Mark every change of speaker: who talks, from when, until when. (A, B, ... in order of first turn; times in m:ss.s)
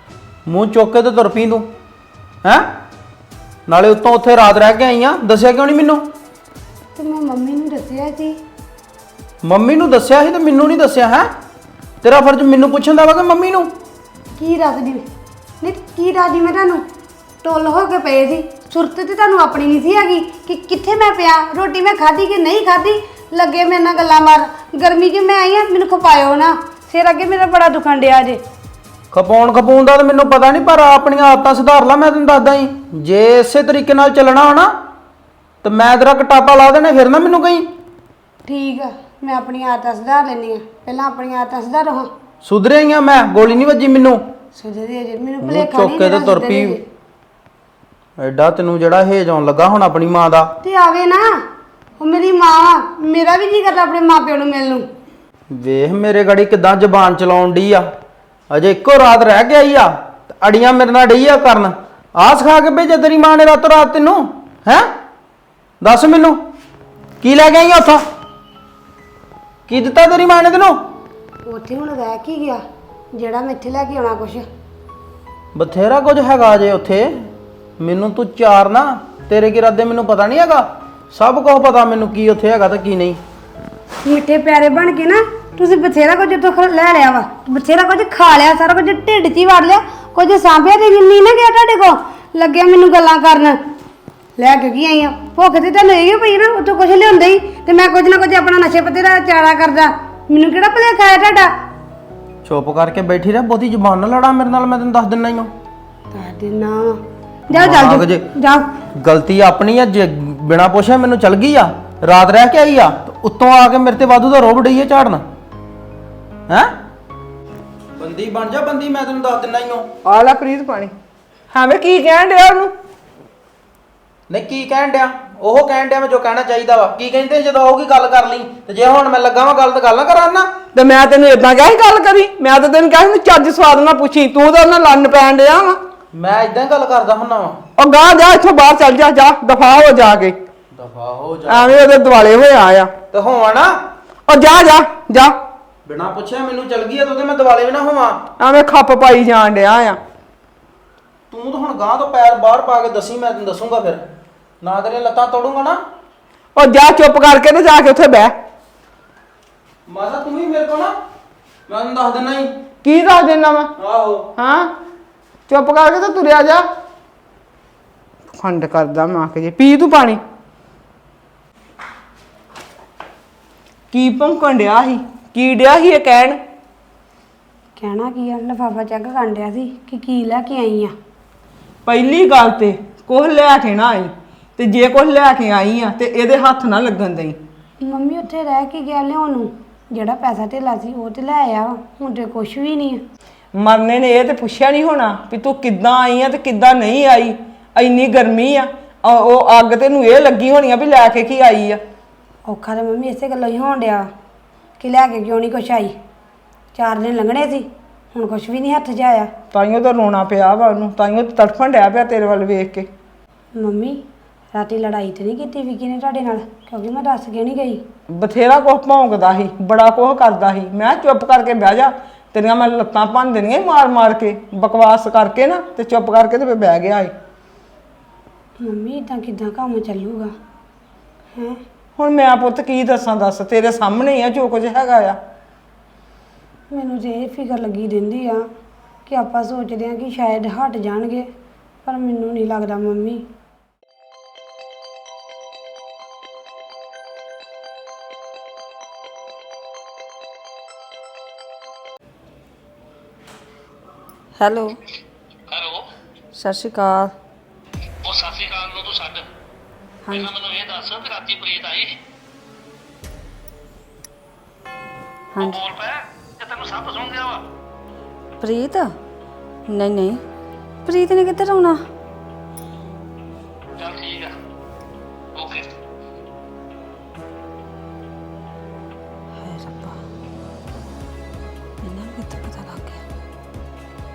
0:00.5-0:01.7 A
0:02.4-0:02.7 A
0:03.7-0:06.1 A
0:07.0-0:08.4 B
0:09.4-0:11.3 A
0:12.0-0:13.7 A
0:14.4-0:15.1 B
0:15.6-0:16.9 B
0:17.4-0:28.4 B
0:29.1-0:34.8 A
0:35.6-0:37.7 A
0:38.4-0:42.1 B
0:42.4-0:44.3 A
0:44.6-0:46.8 B
0:45.4-0:46.8 A
0:48.2-0:50.5 A
0:50.6-0:51.4 B
0:52.0-0:54.9 B
0:55.5-0:57.9 A
0:58.5-1:04.9 A
1:05.8-1:06.4 A
1:07.2-1:08.0 A
1:09.7-1:10.8 A
1:11.4-1:12.6 B
1:13.1-1:14.5 B
1:15.6-1:17.3 A
1:17.8-1:23.2 A
1:24.0-1:33.6 B
1:34.4-1:41.6 B
1:42.4-1:45.5 A
1:46.1-1:48.7 B
1:47.5-1:48.3 A
1:49.0-1:55.2 A
1:58.0-1:59.9 A
2:00.1-2:00.9 C
2:01.5-2:02.7 C
2:04.3-2:10.6 A
2:10.7-2:15.8 C
2:16.1-2:17.6 A
2:17.8-2:20.4 C
2:20.7-2:21.8 A
2:21.5-2:22.9 C
2:23.1-2:23.8 A
2:24.3-2:25.4 C
2:25.9-2:28.2 A
2:28.4-2:30.0 C
2:31.3-2:34.0 A
2:34.6-2:35.8 A
2:36.6-2:38.4 C
2:39.9-2:40.9 A
2:41.7-2:42.5 A
2:42.8-2:43.7 C
2:43.8-2:44.3 A
2:44.4-2:44.7 C
2:45.5-2:46.6 C
2:48.3-2:50.2 C
2:53.9-2:56.4 C
2:57.8-3:00.9 B
3:01.9-3:07.4 C
3:07.8-3:13.0 B
3:13.6-3:21.8 C
3:22.5-3:24.1 B
3:24.8-3:26.0 B
3:26.7-3:29.3 B
3:29.5-3:32.9 C
3:33.6-3:34.0 B
3:34.5-3:37.8 B
3:38.1-3:47.1 C
3:48.6-3:50.3 B
3:51.4-3:51.6 B
3:52.0-3:55.2 C
3:56.7-3:58.5 B
3:59.1-4:01.3 B
4:01.8-4:03.3 B
4:14.4-4:14.8 D
4:15.5-4:15.8 E
4:16.4-4:17.1 D
4:18.0-4:19.2 E
4:20.0-4:20.4 D
4:20.1-4:22.0 E
4:25.3-4:25.6 D
4:25.4-4:27.4 E
4:28.4-4:28.9 D
4:29.7-4:30.2 D
4:30.8-4:31.8 D
4:33.8-4:34.3 E
4:35.4-4:35.7 E
4:39.4-4:40.0 D
4:41.8-4:43.0 D